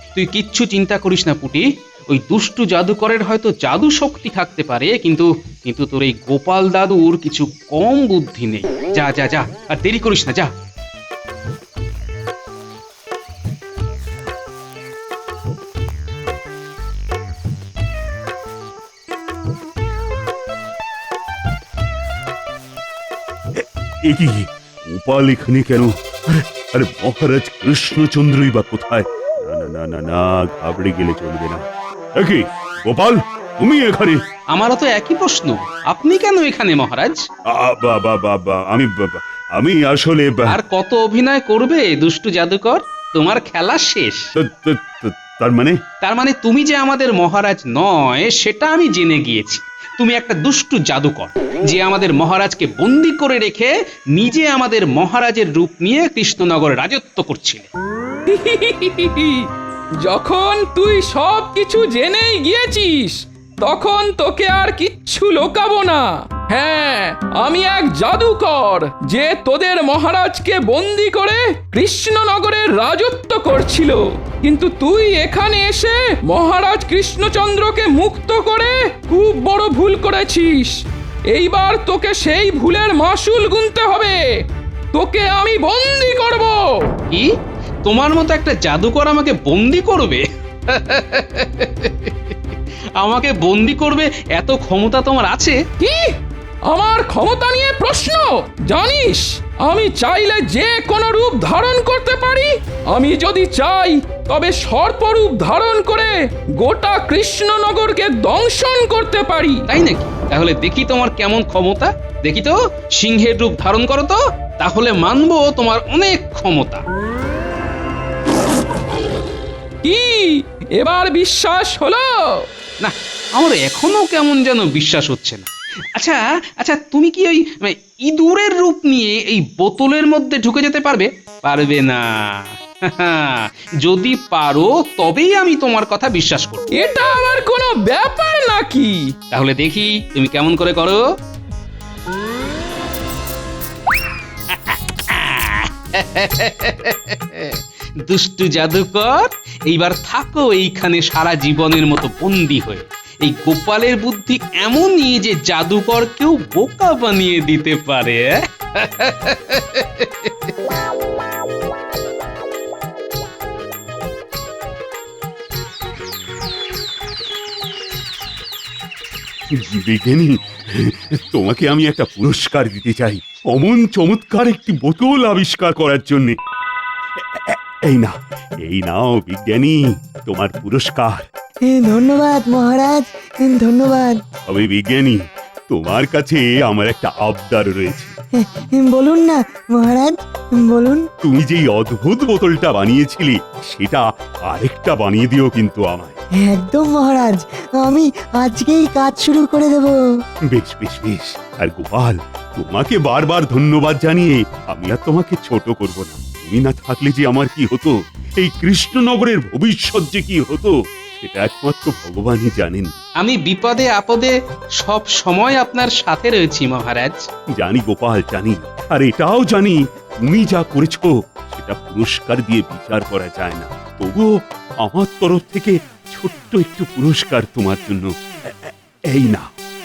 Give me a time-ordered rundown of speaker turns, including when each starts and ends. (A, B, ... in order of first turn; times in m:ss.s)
0:00.2-0:10.5 A
0:23.5-0:31.6 B
0:32.2-0:34.2 B
0:34.5-0:37.2 A
0:37.5-0:40.6 B
0:40.5-0:44.2 A
0:44.4-0:45.8 B
0:46.0-0:57.7 A
0:58.3-0:59.4 C
1:00.0-1:20.7 C
1:21.3-1:24.2 C
1:24.9-1:26.9 C
1:27.8-1:35.6 A
1:35.8-1:36.2 C
1:36.7-1:49.7 C
1:49.7-1:56.8 A
1:59.8-2:02.4 C
2:02.8-2:16.6 A
2:16.7-2:19.0 C
2:19.3-2:21.0 A
2:24.5-2:40.3 A
2:49.5-2:56.4 B
2:57.4-2:58.1 B
2:58.6-3:01.2 B
3:01.7-3:04.2 D
3:04.4-3:08.1 B
3:08.4-3:11.0 D
3:11.2-3:16.2 B
3:16.4-3:19.9 D
3:20.5-3:33.0 B
3:33.2-3:37.2 A
3:37.6-3:44.3 B
3:44.8-3:49.5 B